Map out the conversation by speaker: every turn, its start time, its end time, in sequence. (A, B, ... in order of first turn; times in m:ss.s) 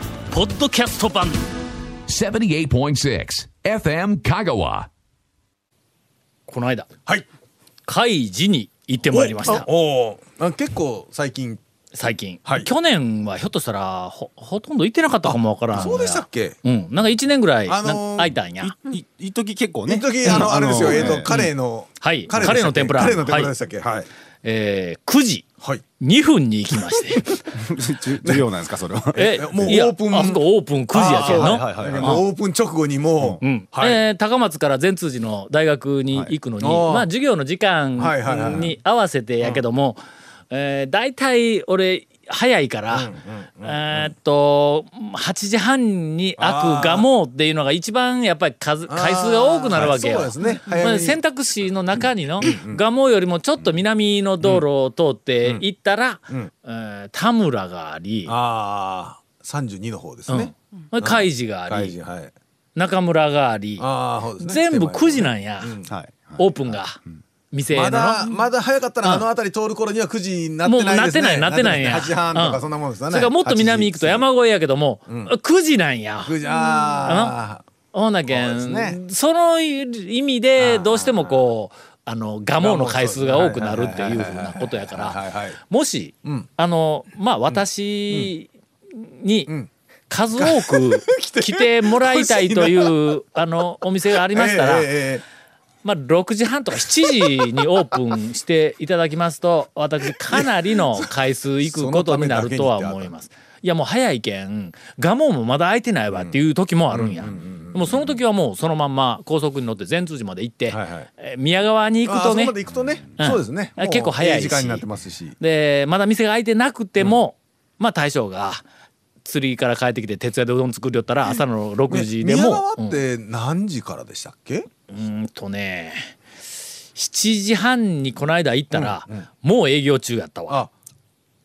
0:00.3-0:01.4 A
0:02.1-0:04.9 B
0:06.5-0:06.9 A
0:07.8-0:09.7 A
0:09.1-0:11.6 C
0:11.9-0:18.7 A
0:15.2-0:16.6 C
0:17.7-0:18.3 C
0:18.6-0:21.3 D
0:19.9-0:24.1 C
0:20.2-0:23.5 A
0:24.4-0:25.4 A
0:26.0-0:27.3 A
0:27.5-0:29.8 D
0:29.1-0:32.2 A
0:29.3-0:34.0 C
0:31.0-0:32.2 D
0:33.4-0:43.1 A
0:36.6-0:37.0 C
0:38.0-0:38.7 C
0:42.9-0:44.1 C
0:43.6-0:58.3 A
0:46.4-0:47.0 C
0:48.9-0:51.2 C
0:52.4-0:52.8 C
0:58.2-1:02.3 C
1:00.3-1:01.9 A
1:02.8-1:03.8 A
1:03.8-1:05.9 C
1:04.4-1:05.7 A
1:05.9-1:06.8 D
1:06.4-1:07.0 A
1:07.5-1:08.3 A
1:07.7-1:14.2 C
1:10.6-1:16.4 A
1:15.1-1:15.3 C
1:16.2-1:17.6 C
1:17.0-1:17.4 A
1:17.9-1:29.5 A
1:18.3-1:19.0 C
1:20.6-1:21.4 C
1:22.6-1:25.6 C
1:27.5-1:28.3 C
1:30.1-1:34.9 A
1:30.4-1:33.1 C
1:34.2-1:35.2 C
1:35.8-1:52.6 A
1:37.2-1:37.6 C
1:40.3-1:41.1 C
1:41.6-1:43.1 C
1:46.9-1:48.2 C
1:50.7-1:51.1 C
1:52.0-1:55.4 C
1:53.2-1:54.8 A
1:55.4-1:58.6 A
1:59.2-2:03.0 A
2:01.9-2:04.7 C
2:04.9-2:06.1 A
2:07.0-2:10.6 A
2:08.7-2:09.2 C